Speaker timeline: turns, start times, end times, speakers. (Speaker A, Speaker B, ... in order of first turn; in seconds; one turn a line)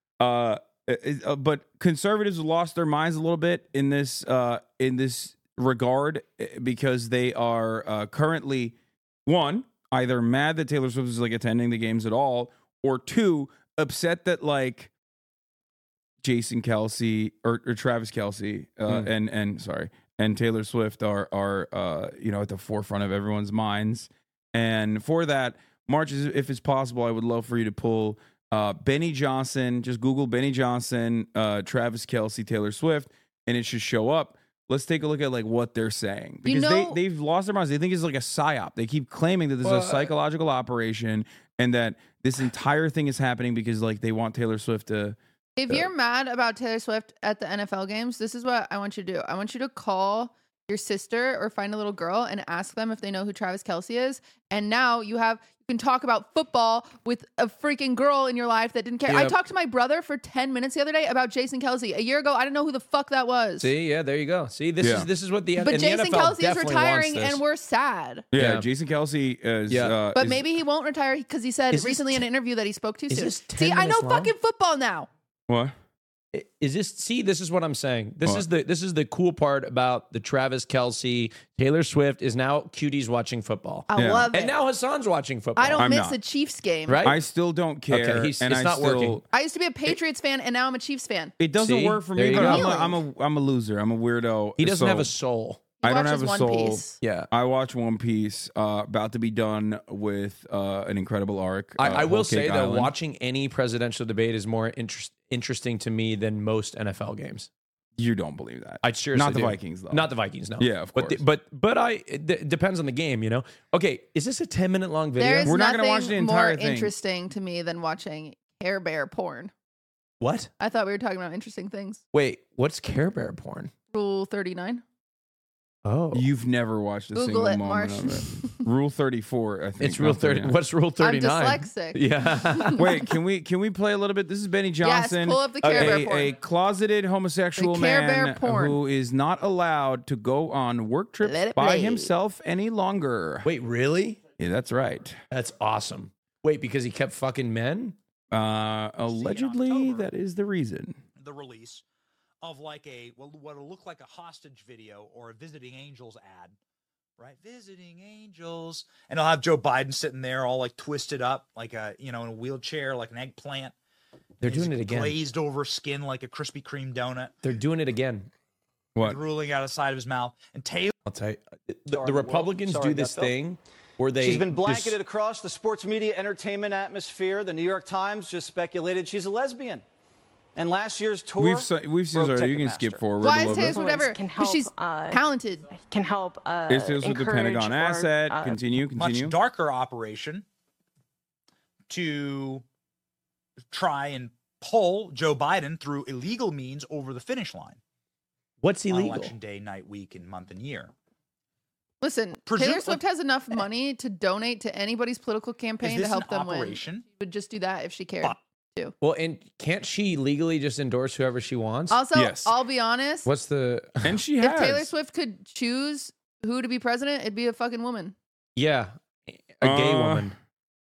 Speaker A: 0.2-14.9
Speaker A: 16.2-45.2
Speaker B: 36.5-37.0
Speaker C: 39.6-40.1
Speaker B: 45.6-63.7
Speaker C: 59.1-59.4
Speaker C: 63.6-67.4
Speaker A: 64.8-65.1
Speaker B: 65.6-68.3
Speaker A: 68.3-70.5
Speaker C: 68.3-68.7
Speaker C: 69.7-70.0
Speaker B: 70.1-75.1
Speaker C: 71.7-72.2
Speaker C: 73.1-74.3
Speaker A: 75.5-75.7
Speaker C: 76.3-85.9
Speaker B: 83.9-84.5
Speaker A: 84.0-84.3
Speaker B: 85.6-87.1
Speaker A: 85.8-86.2
Speaker C: 86.9-87.2
Speaker A: 87.0-89.2
Speaker C: 87.9-89.2
Speaker B: 89.3-91.3
Speaker A: 91.4-95.1
Speaker C: 91.6-92.8
Speaker B: 92.3-93.0
Speaker C: 94.6-95.6
Speaker A: 95.8-102.9
Speaker B: 95.8-97.0
Speaker C: 97.0-97.3
Speaker C: 101.8-107.5
Speaker A: 108.0-111.2
Speaker C: 108.8-115.5
Speaker B: 115.2-119.5
Speaker A: 115.4-116.9
Speaker C: 120.2-120.5
Speaker B: 120.6-122.0
Speaker C: 122.1-123.7
Speaker B: 123.9-124.8
Speaker C: 125.8-126.3
Speaker A: 126.1-130.6
Speaker B: 127.2-128.7
Speaker C: 129.8-132.9
Speaker B: 131.0-132.8
Speaker A: 132.8-143.5
Speaker B: 134.8-136.3
Speaker C: 135.6-136.1
Speaker B: 137.6-138.8
Speaker B: 141.2-142.1
Speaker C: 143.4-144.2
Speaker A: 144.4-145.2
Speaker C: 145.3-148.0
Speaker A: 148.3-151.0
Speaker D: 149.1-150.1
Speaker D: 151.2-151.8
Speaker D: 152.4-156.6
Speaker D: 157.2-163.7
Speaker C: 164.4-165.2
Speaker D: 164.4-167.3
Speaker C: 167.4-168.3
Speaker A: 169.0-169.2
Speaker D: 169.0-170.9
Speaker C: 171.1-175.0
Speaker E: 171.9-173.3
Speaker E: 174.2-179.8
Speaker E: 180.6-183.1
Speaker A: 181.4-183.8
Speaker B: 183.2-185.7
Speaker F: 183.2-188.6
Speaker A: 186.7-189.4
Speaker D: 189.0-190.5
Speaker D: 191.9-192.6
Speaker D: 193.7-197.8
Speaker C: 198.6-199.3
Speaker D: 198.9-200.9
Speaker B: 202.0-208.9
Speaker D: 202.5-203.0
Speaker D: 205.8-207.0
Speaker C: 209.0-212.0
Speaker B: 211.9-213.3
Speaker A: 212.2-212.6
Speaker C: 213.2-214.2
Speaker A: 214.0-214.9
Speaker B: 214.4-218.2
Speaker C: 218.6-220.3
Speaker A: 219.6-220.3